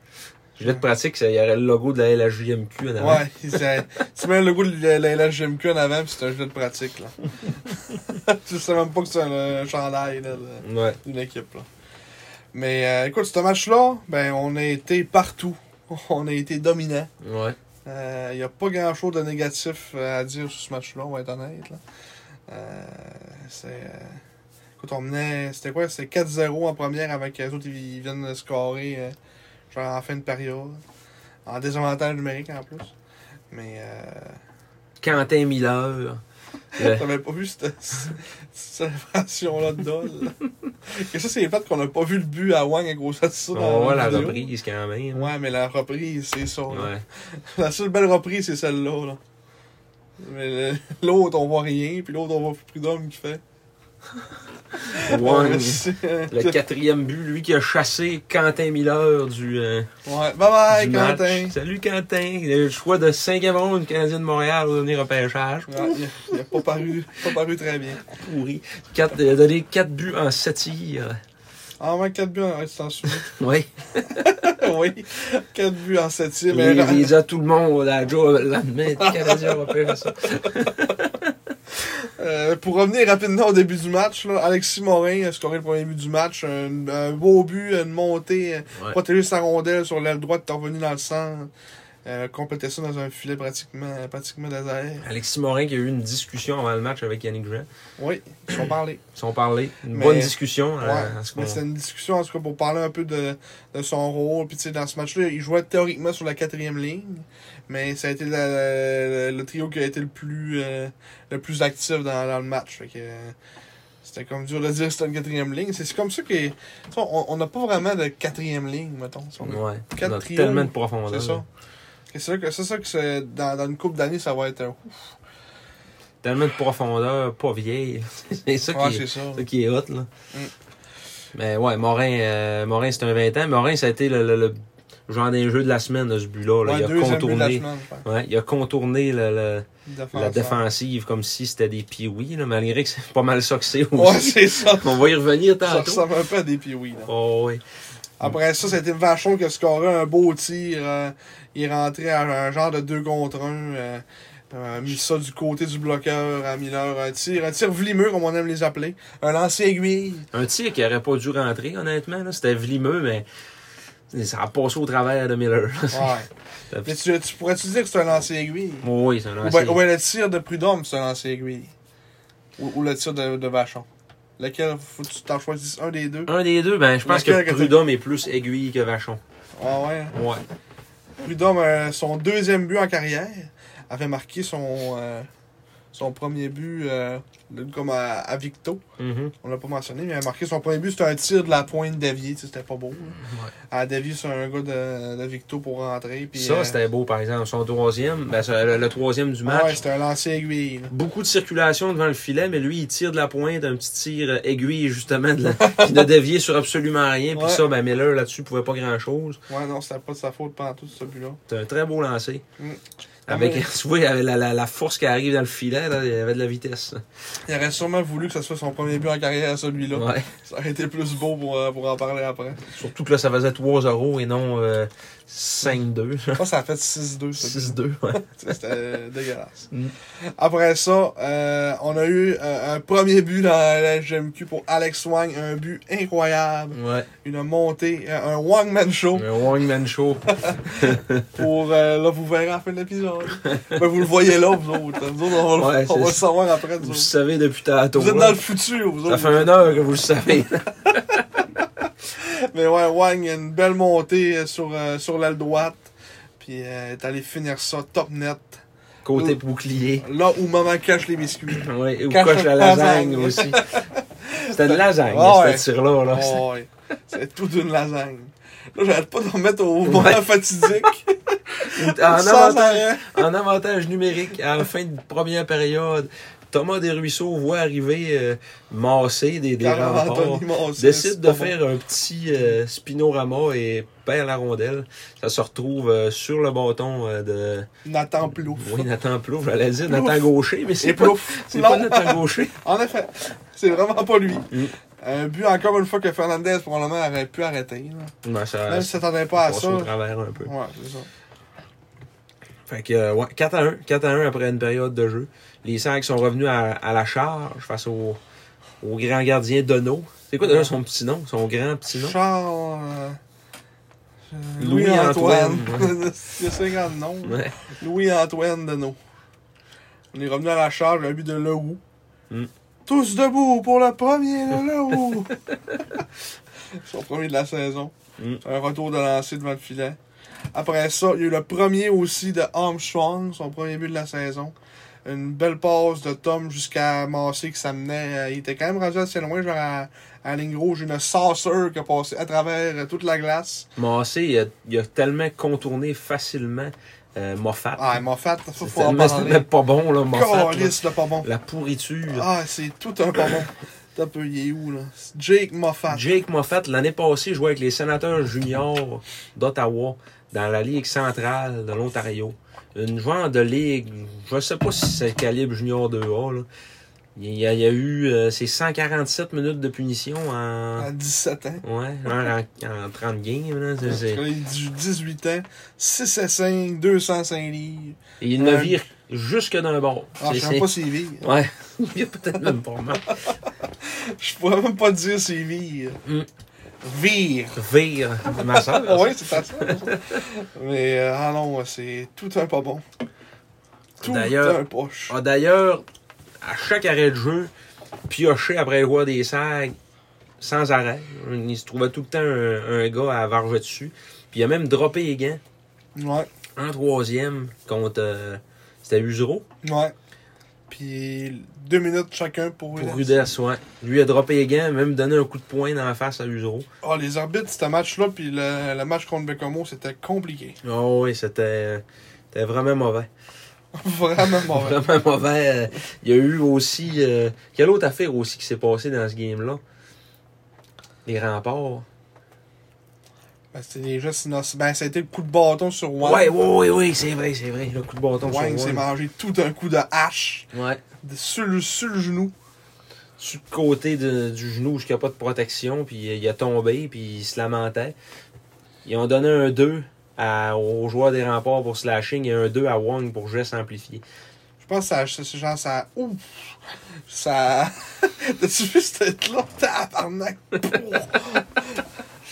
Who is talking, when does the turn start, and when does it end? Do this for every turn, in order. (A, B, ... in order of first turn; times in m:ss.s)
0:00.6-0:03.2 A
0:03.0-0:07.2 B
0:07.7-0:11.7 B
0:10.6-0:11.0 A
0:12.5-0:17.1 B
0:17.2-0:17.6 A
0:17.8-0:21.8 B
0:22.5-0:24.2 B
0:24.8-0:29.1 B
0:29.7-0:30.8 B
0:31.4-0:32.9 B
0:33.5-0:34.4 B
0:35.0-0:36.2 A
0:36.8-0:37.1 A
0:36.8-0:44.5 B
0:43.5-0:45.3 A
0:45.1-0:49.2 B
0:46.7-0:47.0 A
0:50.2-0:53.4 B
0:54.8-0:56.6 B
0:54.9-0:59.9 A
1:00.0-1:01.6 B
1:00.7-1:06.6 A
1:05.7-1:08.0 B
1:08.1-1:11.2 A
1:11.8-1:13.3 B
1:13.0-1:14.4 A
1:14.1-1:17.1 B
1:16.5-1:21.3 A
1:19.0-1:20.8 B
1:21.8-1:31.5 B
1:32.0-1:35.0 B
1:35.0-1:37.7 A
1:38.0-1:39.0 B
1:39.1-1:41.6 A
1:39.9-1:53.4 B
1:54.0-2:01.4 B
1:59.4-2:01.4 A
2:02.1-2:05.1 B
2:06.2-2:10.1 A
2:08.7-2:09.4 B
2:11.3-2:26.0 A
2:16.6-2:18.0 B
2:19.9-2:20.6 B
2:23.9-2:25.0 B
2:25.6-2:27.1 B
2:27.1-2:27.6 A
2:28.2-2:40.3 B
2:40.3-2:43.2 A
2:44.1-2:46.2 A
2:45.9-2:46.3 B
2:46.7-2:47.0 A
2:46.8-2:48.9 B
2:48.8-2:49.8 A
2:49.4-2:51.7 B
2:52.6-2:53.9 B
2:54.4-2:56.3 B
2:56.3-2:59.2 A
2:57.0-2:57.8 B
2:59.6-3:00.2 B
3:00.1-3:00.4 A
3:01.2-3:05.3 B
3:05.9-3:08.8 B
3:09.0-3:09.3 A
3:09.4-3:13.2 B
3:13.2-3:13.5 A
3:13.7-3:16.8 B
3:16.3-3:19.8 A
3:19.4-3:20.9 B
3:20.9-3:29.4 A
3:25.6-3:26.0 B
3:27.3-3:27.6 B
3:29.5-3:31.4 B
3:31.5-3:32.4 A
3:32.6-3:33.6 B
3:33.3-3:37.0 A
3:37.4-3:42.7 B
3:39.9-3:40.3 A
3:42.7-3:46.4 A
3:46.3-3:59.3 B
3:47.4-3:48.2 A
3:56.7-3:57.1 A
3:59.1-4:01.4 A
4:00.3-4:07.1 B
4:03.4-4:03.8 A
4:05.4-4:08.4 A
4:07.9-4:09.6 B
4:09.0-4:11.2 A
4:12.1-4:15.8 B
4:16.4-4:18.6 B
4:19.0-4:20.1 A
4:20.0-4:33.2 B
4:21.5-4:23.6 A
4:24.5-4:26.4 A
4:29.8-4:30.3 A
4:31.7-4:47.7 A
4:39.6-4:41.6 B
4:47.8-4:48.9 B
4:48.5-4:52.6 A
4:49.9-4:50.2 B
4:50.8-4:58.1 B
4:58.2-5:00.5 A
4:58.7-5:01.1 B
5:02.7-5:08.2 A
5:08.8-5:12.2 A
5:10.4-5:10.7 B
5:11.9-5:13.2 B
5:14.3-5:19.0 B
5:14.6-5:16.0 A
5:17.2-5:17.5 A
5:20.1-5:21.8 B
5:22.8-5:25.4 B
5:26.8-5:30.0 B
5:30.5-5:34.5 B
5:35.0-5:43.7 B
5:43.8-5:48.0 A
5:47.8-5:49.4 B
5:48.6-5:52.3 A
5:50.1-5:51.3 B
5:52.1-5:56.2 B
5:55.9-6:06.5 A
6:07.1-6:10.9 A
6:10.8-6:11.6 B
6:11.6-6:14.2 A
6:13.8-6:18.8 B
6:18.2-6:23.1 A
6:20.2-6:21.3 B
6:23.8-6:26.0 B
6:26.8-6:27.6 B
6:27.5-6:30.2 A
6:28.3-6:32.8 B
6:34.0-6:35.8 A
6:34.0-6:35.2 B
6:36.4-6:37.5 A
6:38.1-6:39.8 A
6:40.4-6:45.4 A
6:46.0-6:46.3 B
6:46.6-6:49.4 A
6:49.6-6:49.9 B
6:50.7-6:53.2 B
6:52.7-6:56.7 A
6:56.8-7:00.6 B
7:00.6-7:03.1 A
7:03.7-7:04.8 B
7:04.2-7:09.6 A
7:11.0-7:11.8 A
7:13.5-7:16.3 B
7:16.0-7:18.8 A
7:18.2-7:20.5 B
7:20.5-7:20.8 A
7:21.0-7:22.3 B
7:23.2-7:28.0 A
7:28.8-7:34.0 A
7:34.6-7:36.5 B
7:37.1-7:41.8 B